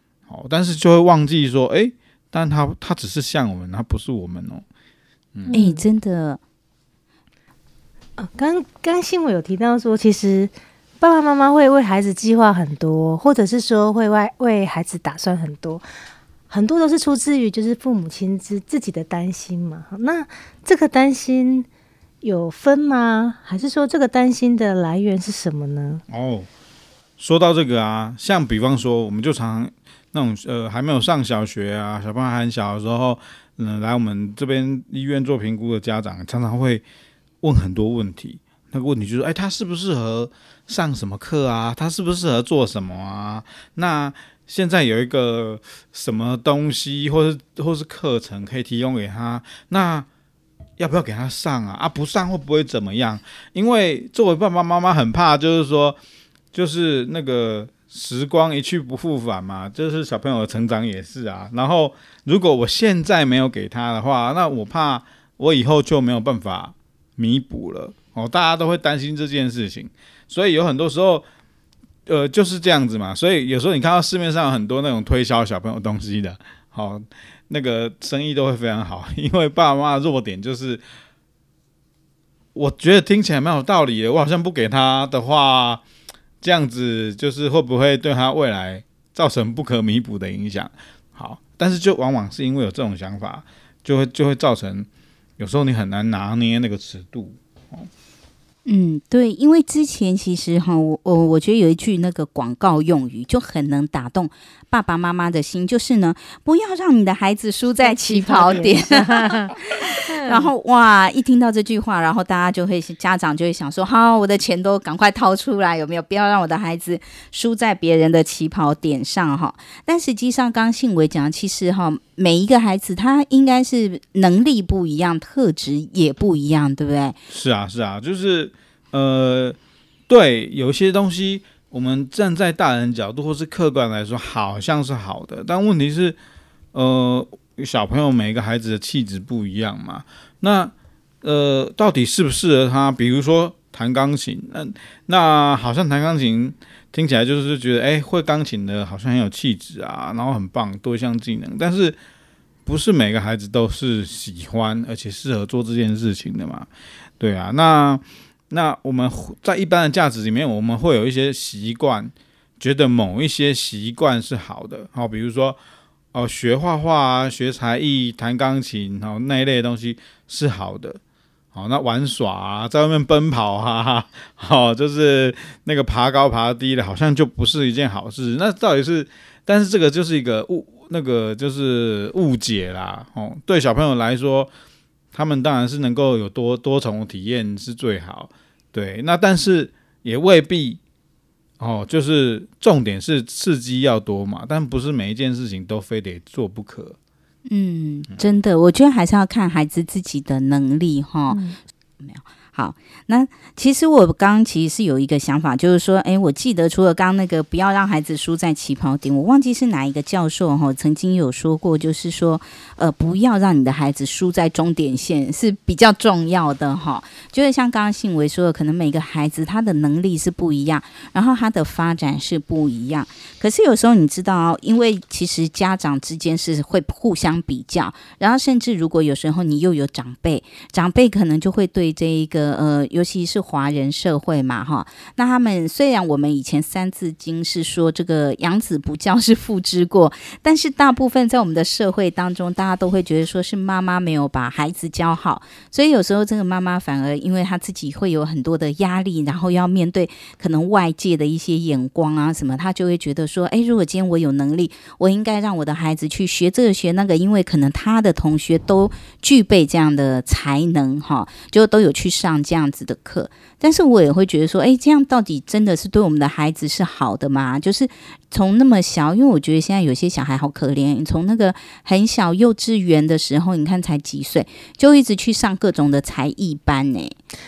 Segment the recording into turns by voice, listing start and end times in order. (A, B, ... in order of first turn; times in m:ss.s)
0:00.3-0:04.6 A
0:05.5-0:05.8 B
0:05.5-0:06.4 C
0:08.2-0:15.8 B
0:16.5-0:21.7 B
0:22.2-0:26.0 B
0:26.1-0:26.5 A
0:27.2-0:36.8 A
0:37.4-0:50.1 A
0:50.8-0:56.0 A
0:56.5-1:11.2 A
1:12.0-1:20.8 A
1:22.5-1:25.8 A
1:26.4-1:37.9 A
1:38.6-2:07.2 C
1:47.8-1:50.5 B
2:07.3-2:09.6 A
2:10.1-2:16.2 A
2:16.7-2:32.0 A
2:32.6-2:36.7 A
2:37.2-2:45.6 A
2:46.1-2:51.0 A
2:51.5-3:04.5 A
3:05.1-3:10.8 A
3:11.6-3:17.0 A
3:17.5-3:21.4 C
3:21.3-3:21.6 B
3:22.0-4:37.2 C